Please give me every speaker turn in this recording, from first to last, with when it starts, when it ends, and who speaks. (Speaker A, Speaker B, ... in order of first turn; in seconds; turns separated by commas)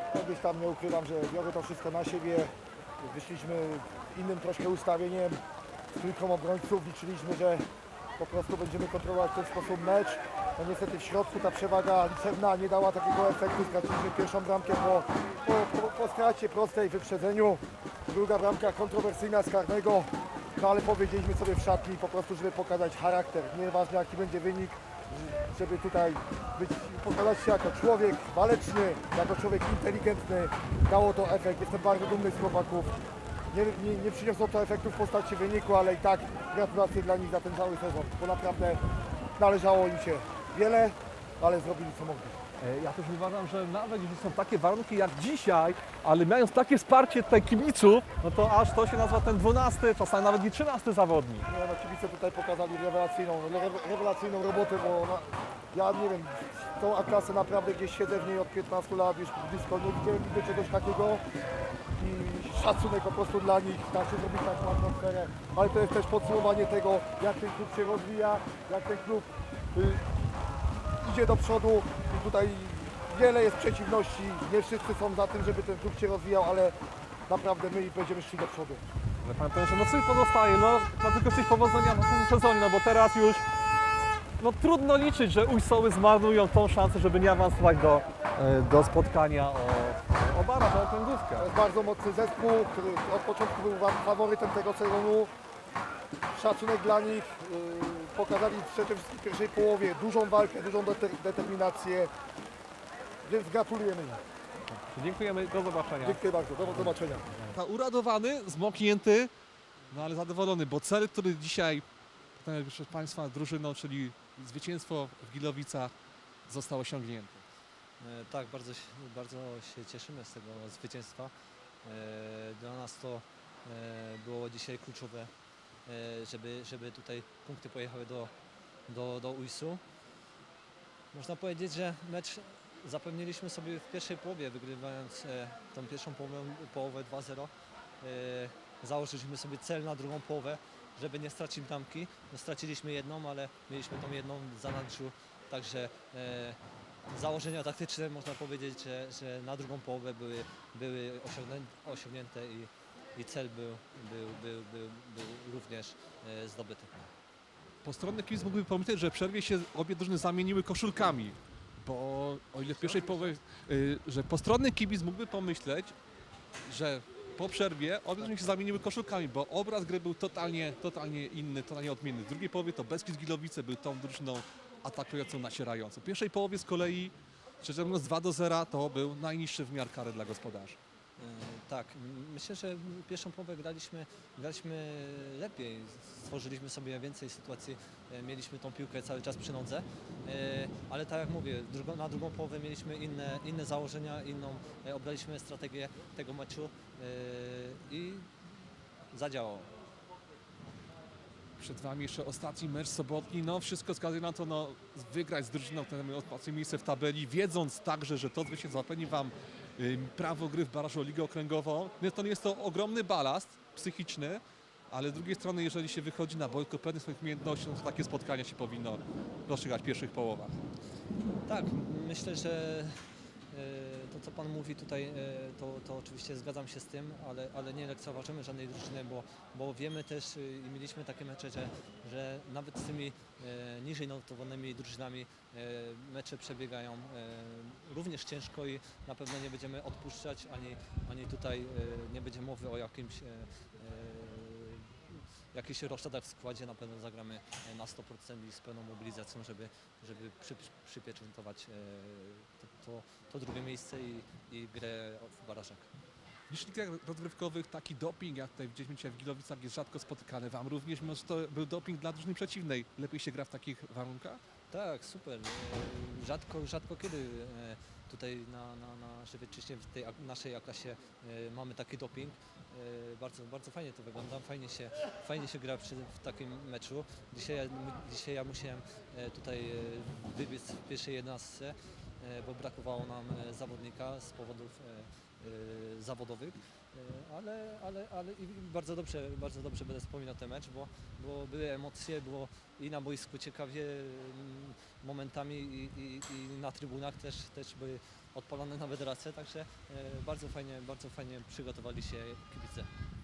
Speaker A: 0.1-5.4, Speaker A: 6.0-7.6, Speaker A: 8.2-32.9, Speaker A: 33.5-38.8, Speaker A: 39.4-42.4, Speaker B: 42.6-51.5, Speaker A: 51.5-61.2, Speaker A: 62.0-70.0, Speaker A: 71.0-76.8, Speaker A: 77.3-78.8, Speaker B: 79.2-83.4, Speaker B: 84.4-91.5, Speaker A: 91.4-95.3, Speaker A: 96.3-102.1, Speaker A: 103.2-104.2, Speaker B: 104.7-106.2, Speaker A: 106.0-107.3, Speaker B: 107.4-109.3, Speaker B: 109.9-115.9, Speaker B: 116.5-117.4, Speaker C: 118.0-121.3, Speaker C: 121.8-125.3, Speaker C: 125.8-128.3, Speaker C: 128.9-129.8, Speaker C: 131.1-157.1, Speaker B: 157.8-165.9, Speaker B: 166.6-180.8, Speaker C: 181.2-198.3, Speaker C: 199.1-199.7, Speaker B: 201.6-220.6, Speaker C: 221.5-222.9, Speaker C: 223.5-255.9, Speaker B: 256.5-264.4, Speaker C: 264.7-302.9